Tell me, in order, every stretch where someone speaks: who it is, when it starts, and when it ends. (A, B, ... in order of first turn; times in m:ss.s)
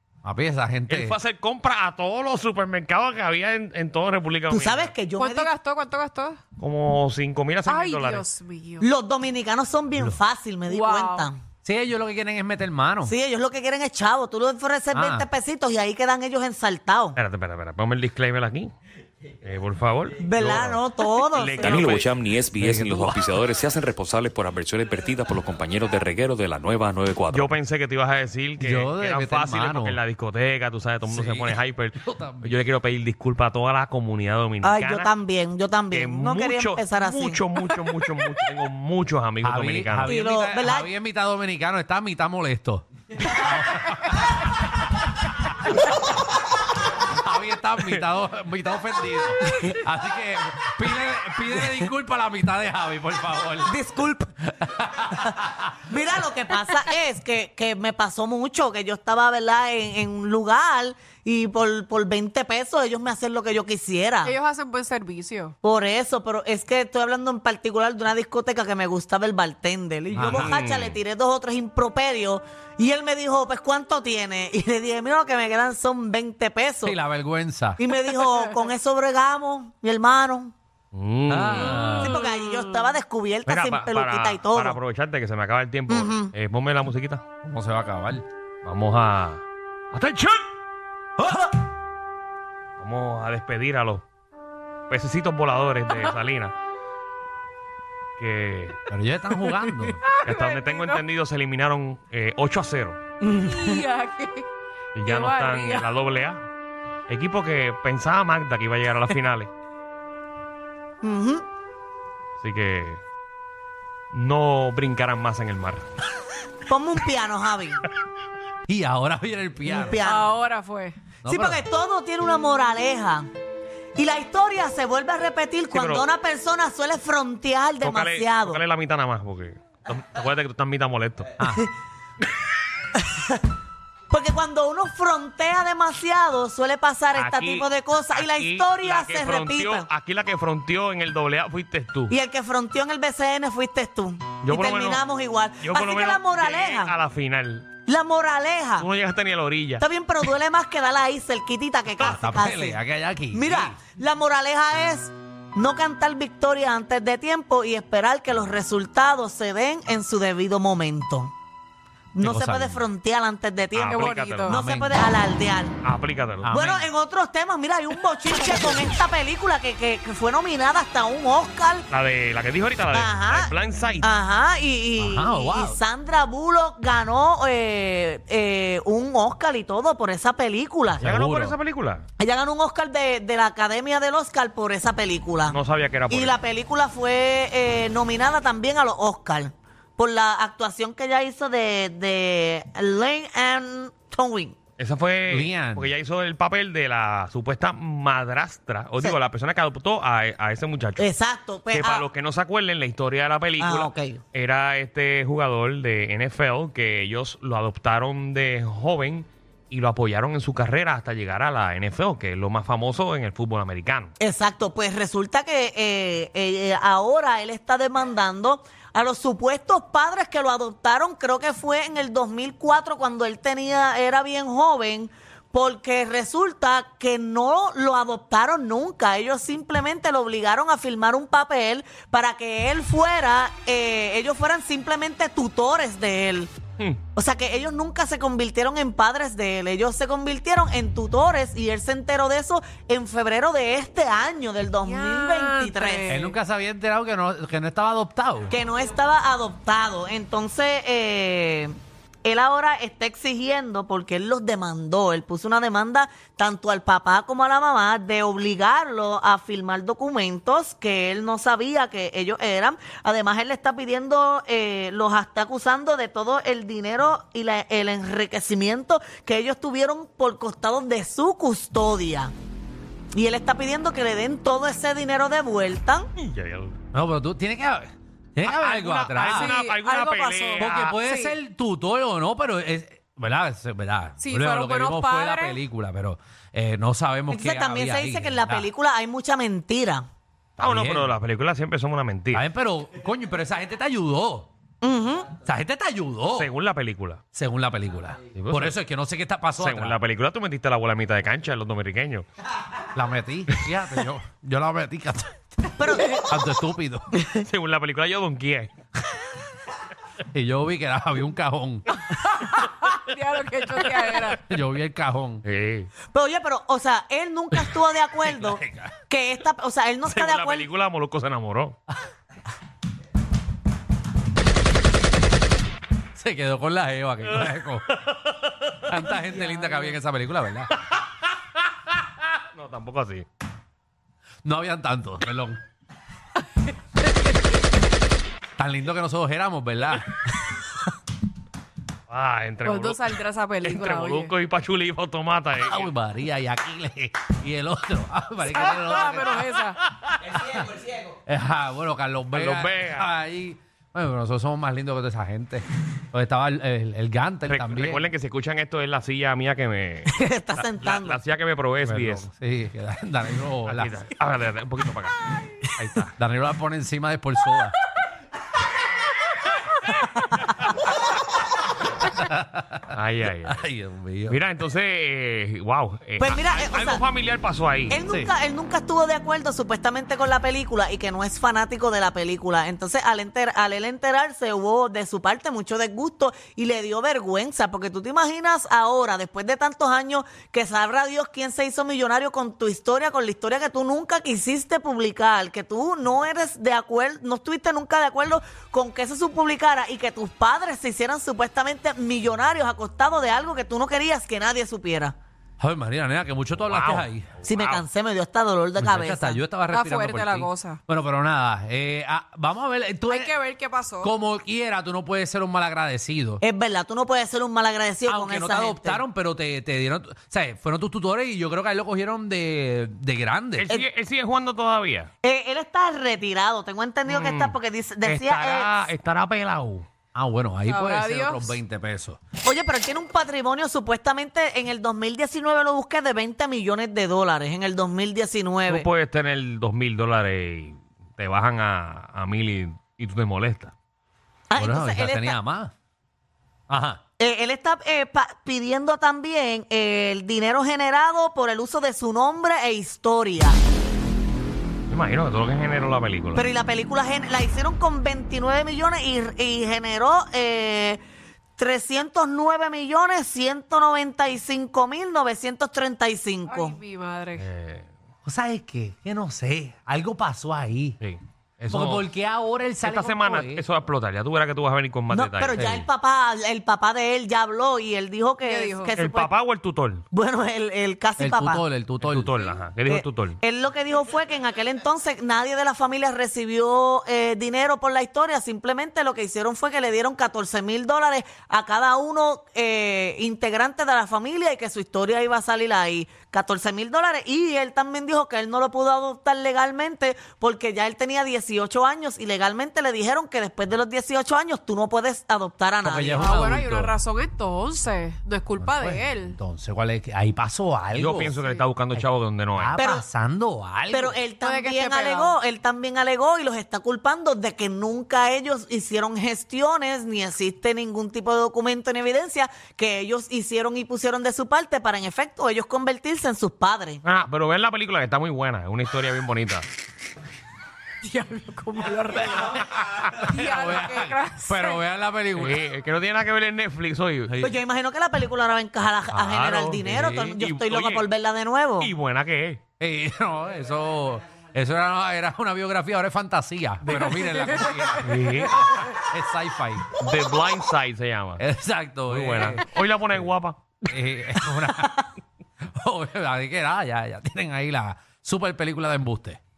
0:00.2-0:01.2 A
0:00.9-0:05.0 B
0:04.5-0:05.5 C
0:05.2-0:06.4 D
0:06.6-0:08.2 B
0:07.6-0:08.9 D
0:08.8-0:11.4 C
0:10.7-0:11.3 D
0:11.6-0:13.1 A
0:13.0-0:17.2 C
0:14.9-0:15.3 A
0:17.2-0:18.7 B
0:19.4-0:20.8 B
0:20.2-0:22.1 C
0:21.3-0:22.3 B
0:21.6-0:27.5 E
0:22.6-0:23.2 A
0:27.3-0:35.1 B
0:28.6-0:30.0 A
0:31.1-0:32.6 A
0:34.6-0:37.4 C
0:35.9-0:40.2 B
0:39.4-0:44.4 A
0:40.0-0:40.9 C
0:47.0-0:53.8 A
0:53.6-0:54.3 C
0:54.6-0:55.3 A
0:55.5-1:04.4 C
1:04.2-1:05.6 D
1:05.6-1:17.0 C
1:10.1-1:10.6 A
1:10.2-1:11.0 B
1:16.8-1:17.9 A
1:17.8-1:20.5 C
1:20.9-1:21.9 B
1:21.3-1:22.2 A
1:22.0-1:24.8 C
1:23.4-1:27.2 B
1:25.9-1:26.3 C
1:27.4-1:28.3 A
1:28.6-1:30.5 B
1:31.2-1:31.5 A
1:32.8-1:34.0 B
1:34.9-1:36.5 B
1:38.2-1:38.8 B
1:38.9-1:40.0 A
1:39.5-1:41.0 D
1:40.2-1:43.0 B
1:43.3-1:44.5 D
1:45.0-1:46.4 B
1:45.0-1:45.9 D
1:47.1-1:49.5 B
1:51.0-1:51.4 C
1:52.4-1:53.0 B
1:54.1-1:55.8 B
1:56.7-1:57.8 C
1:58.7-2:00.0 A
1:59.7-2:00.3 C
2:00.0-2:01.0 D
2:01.2-2:01.6 A
2:01.3-2:03.3 C
2:04.0-2:08.6 C
2:05.7-2:06.1 B
2:07.8-2:11.4 B
2:11.4-2:11.7 A
2:11.4-2:11.7 C
2:13.0-2:13.4 C
2:14.1-2:19.9 C
2:17.2-2:22.2 B
2:22.1-2:26.9 C
2:24.4-2:25.0 B
2:25.6-2:27.7 B
2:27.9-2:28.9 C
2:28.8-2:29.8 B
2:29.8-2:32.8 C
2:32.0-2:33.8 A
2:33.3-2:41.3 C
2:42.1-2:45.8 C
2:42.2-2:42.8 A
2:43.8-2:44.5 B
2:43.9-2:44.6 D
2:44.5-2:45.0 A
2:45.8-2:46.5 B
2:46.4-2:46.9 A
2:46.5-2:51.9 C
2:51.9-2:54.1 B
2:52.9-3:01.1 C
2:55.0-2:55.8 A
3:01.0-3:01.6 A
3:01.0-3:02.0 B
3:02.2-3:05.6 C
3:05.5-3:06.3 B
3:06.1-3:14.6 C
3:14.8-3:21.1 B
3:15.3-3:15.9 A
3:21.0-3:22.1 C
3:21.7-3:34.1 B
3:23.6-3:24.2 C
3:34.2-3:56.5 C
3:57.2-4:06.1 C
4:04.8-4:06.3 D
4:06.1-4:08.6 A
4:08.5-4:32.3 C
4:33.1-4:36.1 C
4:36.2-4:36.8 B
4:36.9-4:39.6 A
4:38.4-4:41.0 B
4:39.3-4:41.4 D
4:40.6-4:48.7 A
4:44.2-4:45.6 D
4:47.3-4:50.0 C
4:50.6-4:51.1 A
4:50.6-4:52.4 B
4:52.3-4:54.5 A
4:54.8-4:55.3 C
4:55.3-4:56.5 A
4:56.4-4:57.2 B
4:57.3-5:00.0 A
4:58.3-4:58.8 B
4:59.6-5:02.3 B
5:03.0-5:05.3 A
5:05.8-5:06.2 C
5:06.1-5:07.1 A
5:07.4-5:08.7 B
5:10.3-5:11.9 A
5:12.0-5:14.4 D
5:14.3-5:15.4 A
5:15.4-5:15.9 B
5:16.1-5:20.7 C
5:18.2-5:18.9 A
5:20.1-5:21.8 B
5:26.2-5:27.9 A
5:27.4-5:29.1 B
5:28.9-5:30.7 A
5:32.5-5:33.3 B
5:34.4-5:35.6 A
5:38.6-5:40.2 A
5:42.1-5:45.9 B
5:42.6-5:44.3 D
5:45.6-5:49.4 A
5:48.5-5:49.8 D
5:49.9-5:50.7 B
5:51.3-5:58.0 A
5:52.3-5:53.1 B
5:57.5-6:02.3 B
6:00.1-6:01.2 C
6:01.8-6:03.9 A
6:03.7-6:06.1 B
6:06.2-6:07.8 A
6:12.1-6:14.4 A
6:12.9-6:13.6 B
6:14.3-6:18.0 B
6:16.2-6:17.0 C
6:17.9-6:45.2 C
6:45.6-6:47.3 A
6:46.7-6:47.9 B
6:47.4-6:49.4 C
6:48.8-6:53.3 A
6:49.7-6:50.8 D
6:53.1-6:54.1 D
6:54.0-6:56.4 A
6:56.4-6:59.0 C
6:58.1-7:03.7 A
7:03.6-7:05.1 B
7:05.2-7:08.9 C
7:07.1-7:09.9 B
7:10.2-7:12.2 A
7:10.7-7:11.6 D
7:12.4-7:18.9 C
7:18.7-7:23.7 B
7:24.5-7:25.4 C
7:24.6-7:25.7 A
7:26.7-7:27.0 A
7:27.2-7:33.6 C
7:34.9-7:36.4 B
7:36.4-7:41.0 C
7:41.6-7:46.8 C
7:46.5-7:47.5 D
7:47.4-7:47.9 B
7:48.2-7:51.0 A
7:51.0-7:52.1 B
7:51.7-7:53.6 A
7:52.8-7:55.7 B
7:55.1-7:59.3 C
7:55.5-7:55.9 A
7:58.4-7:58.9 D
7:59.0-8:00.0 B
8:00.1-8:01.6 C
8:01.2-8:02.4 A
8:02.0-8:03.4 B
8:02.9-8:26.4 C
8:25.8-8:26.9 A
8:26.2-8:29.4 D
8:28.6-8:31.4 A
8:31.0-8:32.8 B
8:31.3-8:31.7 D
8:31.9-8:34.2 A
8:32.8-8:33.1 C
8:33.9-8:47.0 C
8:34.4-8:35.4 D
8:47.0-8:49.7 B
8:51.0-8:52.7 D
8:52.5-8:55.6 A
8:53.3-8:54.8 D
8:55.4-8:57.4 B
8:57.3-8:57.6 A
8:57.4-9:01.9 C
8:59.1-9:00.4 A
8:59.3-9:01.1 B
9:01.8-9:02.6 B
9:02.8-9:09.9 A
9:06.8-9:07.3 B
9:08.0-9:08.8 B
9:10.0-9:11.4 B
9:11.4-9:12.6 A
9:12.1-9:13.6 B
9:13.9-9:15.1 A
9:15.6-9:19.4 A